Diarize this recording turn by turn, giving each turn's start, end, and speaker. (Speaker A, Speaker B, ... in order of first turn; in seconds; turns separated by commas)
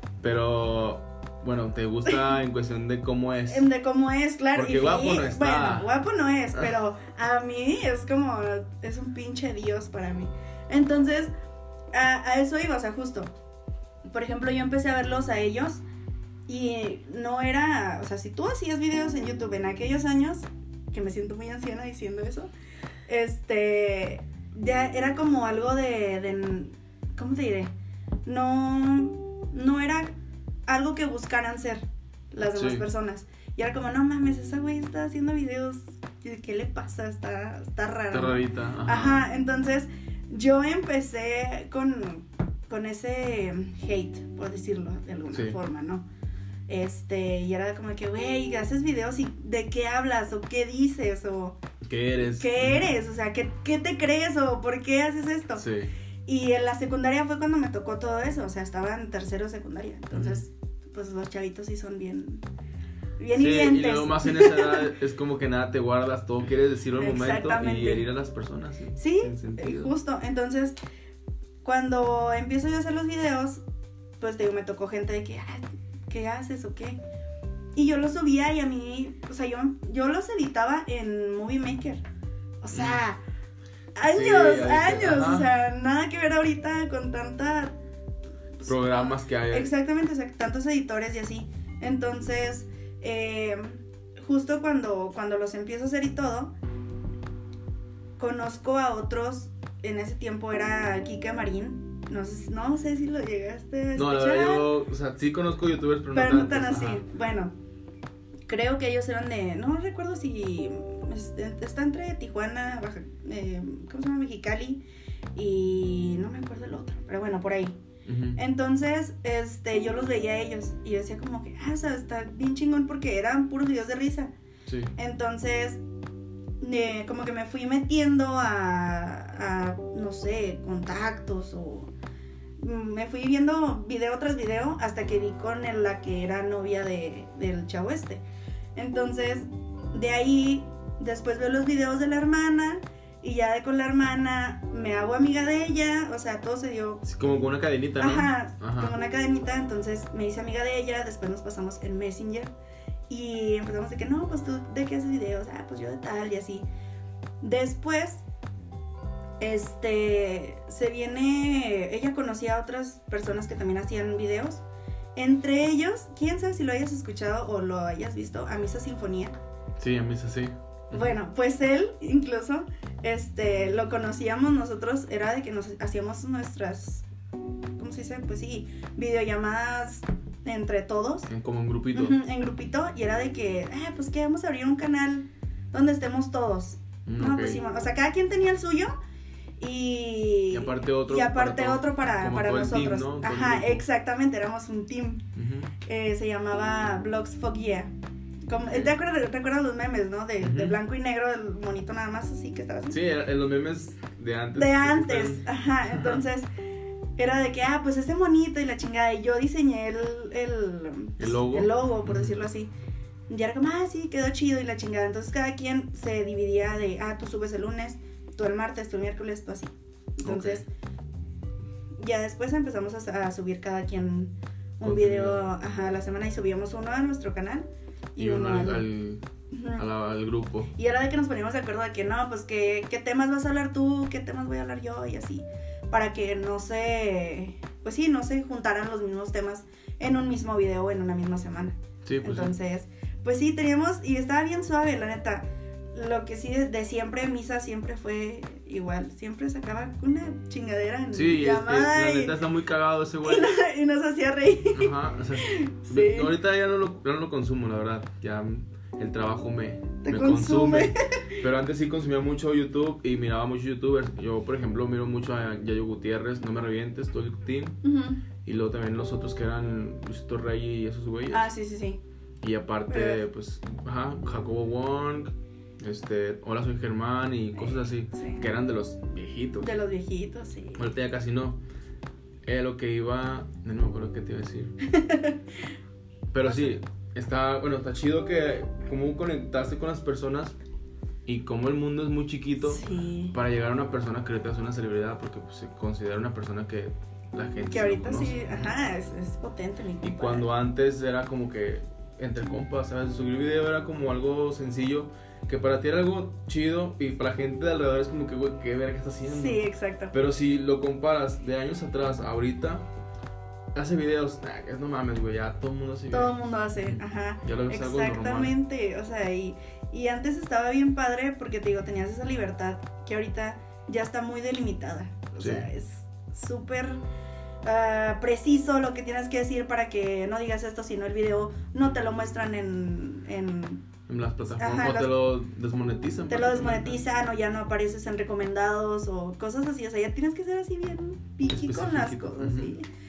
Speaker A: 0.2-3.7, Speaker B: 3.5-11.3, Speaker A: 4.5-5.9, Speaker B: 11.9-13.3, Speaker B: 14.1-15.8, Speaker B: 16.5-22.5, Speaker B: 23.1-27.7, Speaker B: 28.2-30.1, Speaker B: 30.7-46.0, Speaker A: 32.5-32.8, Speaker A: 38.1-39.3, Speaker A: 45.3-45.6, Speaker B: 46.7-51.6, Speaker A: 51.8-52.9, Speaker B: 52.2-55.6, Speaker A: 55.6-55.9, Speaker B: 56.2-62.4, Speaker A: 60.1-60.4, Speaker B: 63.2-64.9, Speaker A: 63.3-69.9, Speaker B: 67.0-68.0, Speaker B: 69.0-70.8, Speaker B: 71.6-73.6, Speaker B: 74.2-77.0, Speaker B: 77.7-82.0, Speaker B: 82.6-83.2, Speaker A: 82.7-83.0, Speaker B: 83.9-87.8, Speaker A: 84.1-85.5, Speaker B: 88.6-96.5, Speaker A: 88.6-89.7, Speaker B: 98.2-104.7, Speaker A: 103.9-107.0, Speaker B: 106.1-107.5, Speaker B: 108.5-114.8, Speaker B: 115.3-117.8, Speaker A: 118.0-118.4, Speaker B: 118.3-124.3, Speaker A: 124.7-124.9, Speaker B: 125.0-125.8, Speaker B: 126.6-131.9, Speaker B: 132.6-138.2, Speaker B: 138.8-147.1, Speaker A: 147.0-148.9, Speaker B: 148.0-152.5, Speaker B: 153.1-156.7, Speaker B: 157.4-158.2, Speaker B: 159.4-164.6, Speaker B: 165.2-169.3, Speaker A: 169.8-171.1, Speaker B: 170.9-177.0, Speaker B: 177.8-181.3, Speaker A: 181.3-182.2, Speaker B: 181.9-188.9, Speaker A: 187.1-187.6, Speaker B: 189.6-195.3, Speaker A: 190.5-193.8, Speaker A: 195.3-195.7, Speaker B: 195.8-197.9, Speaker B: 198.5-203.0, Speaker A: 200.4-200.8, Speaker A: 202.9-206.2, Speaker B: 204.5-206.5, Speaker B: 207.2-212.7, Speaker A: 211.2-212.3, Speaker B: 213.3-220.7, Speaker A: 220.2-220.6, Speaker B: 222.0-228.9, Speaker A: 224.8-225.4, Speaker A: 228.2-230.7, Speaker B: 229.5-229.8, Speaker B: 230.8-252.4, Speaker A: 242.0-242.5, Speaker A: 251.1-253.5, Speaker B: 253.2-256.3, Speaker A: 254.7-267.8, Speaker B: 260.0-261.4, Speaker B: 267.8-268.2, Speaker A: 268.4-271.5, Speaker B: 271.3-272.0, Speaker A: 272.4-279.7, Speaker B: 272.9-273.2, Speaker B: 277.5-278.5, Speaker B: 279.6-280.9, Speaker A: 280.8-281.6, Speaker A: 282.4-284.7, Speaker B: 284.8-285.7, Speaker A: 286.3-290.6, Speaker B: 286.4-286.7, Speaker A: 291.2-298.6, Speaker B: 292.6-293.4, Speaker B: 297.7-300.5, Speaker A: 300.0-309.6, Speaker B: 309.2-310.1, Speaker A: 310.1-312.9, Speaker A: 313.7-318.6, Speaker B: 316.1-327.0, Speaker A: 325.4-325.7, Speaker B: 327.6-333.9, Speaker A: 334.1-337.0, Speaker B: 334.5-335.1, Speaker B: 336.3-342.9, Speaker A: 341.5-342.7